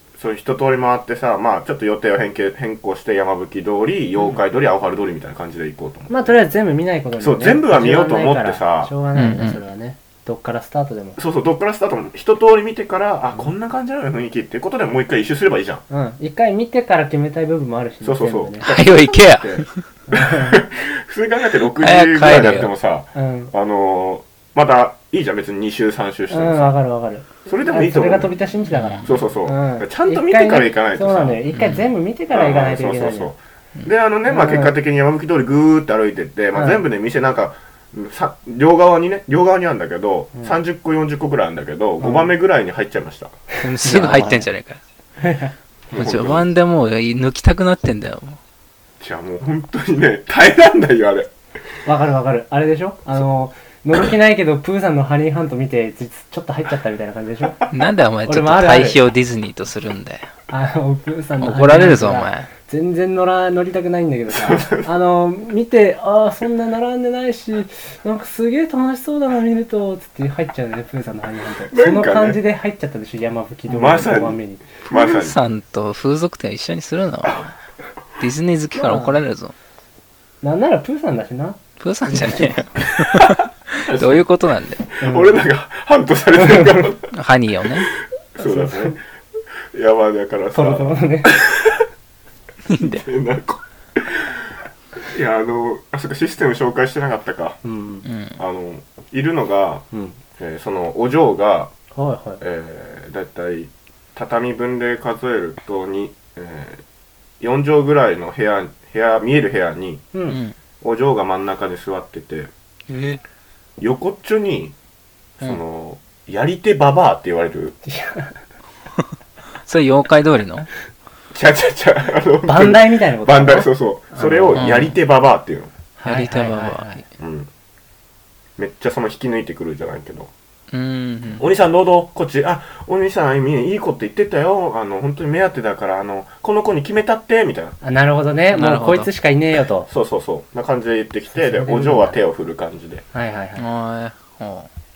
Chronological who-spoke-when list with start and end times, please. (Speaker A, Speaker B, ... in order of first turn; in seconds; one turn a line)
Speaker A: 0.2-6.3
Speaker B: 6.1-11.2
Speaker A: 7.2-8.9
Speaker C: 9.1-9.6
Speaker A: 11.2-15.8
Speaker B: 15.9-18.7
Speaker A: 18.0-26.7
Speaker C: 18.6-19.8
Speaker B: 20.1-20.6
Speaker C: 21.8-22.7
Speaker B: 23.1-23.5
Speaker B: 26.3-33.3
Speaker A: 27.4-28.3
Speaker C: 28.7-29.1
Speaker A: 29.0-31.4
Speaker C: 31.6-31.9
Speaker A: 32.3-43.4
Speaker B: 34.3-34.8
Speaker B: 36.5-36.9
Speaker B: 42.0-42.3
Speaker C: 43.6-44.8
Speaker B: 43.8-44.5
Speaker B: 45.2-45.5
Speaker A: 45.9-46.5
Speaker C: 45.9-48.4
Speaker A: 49.0-51.3
Speaker B: 51.9-57.6
Speaker C: 57.7-60.3
Speaker B: 58.3-59.0
Speaker B: 60.5-74.7
Speaker C: 61.4-62.5
Speaker A: 64.3-64.9
Speaker A: 71.7-72.4
Speaker A: 73.7-75.4
Speaker C: 74.9-77.5
Speaker C: 78.2-79.5
Speaker B: 78.7-79.2
Speaker B: 80.4-82.6
Speaker C: 81.8-84.8
Speaker A: 83.8-84.3
Speaker A: 84.9-87.1
Speaker B: 85.0-85.4
Speaker B: 86.4-86.9
Speaker C: 87.1-87.9
Speaker A: 88.3-89.0
Speaker B: 88.4-89.0
Speaker A: 89.7-91.9
Speaker B: 90.5-91.3
Speaker C: 92.7-93.1
Speaker A: 92.9-97.6
Speaker B: 97.6-98.1
Speaker C: 98.0-98.4
Speaker A: 98.4-99.8
Speaker B: 99.9-100.2
Speaker A: 100.4-101.7
Speaker B: 102.0-102.4
Speaker A: 102.4-106.8
Speaker A: 107.4-110.1
Speaker B: 110.1-110.4
Speaker C: 110.3-110.5
Speaker A: 110.8-112.5
Speaker C: 112.9-113.2
Speaker A: 113.8-114.8
Speaker A: 115.4-117.8
Speaker B: 117.8-118.4
Speaker C: 119.7-120.7
Speaker A: 121.3-125.7
Speaker B: 122.5-124.7
Speaker C: 124.6-125.0
Speaker B: 126.0-127.0
Speaker C: 126.1-127.0
Speaker A: 127.2-127.5
Speaker A: 128.6-130.3
Speaker C: 130.7-131.5
Speaker A: 131.4-137.8
Speaker B: 137.8-139.9
Speaker C: 138.5-139.1
Speaker A: 139.9-143.0
Speaker B: 141.3-142.2
Speaker B: 143.1-143.7
Speaker C: 143.6-144.7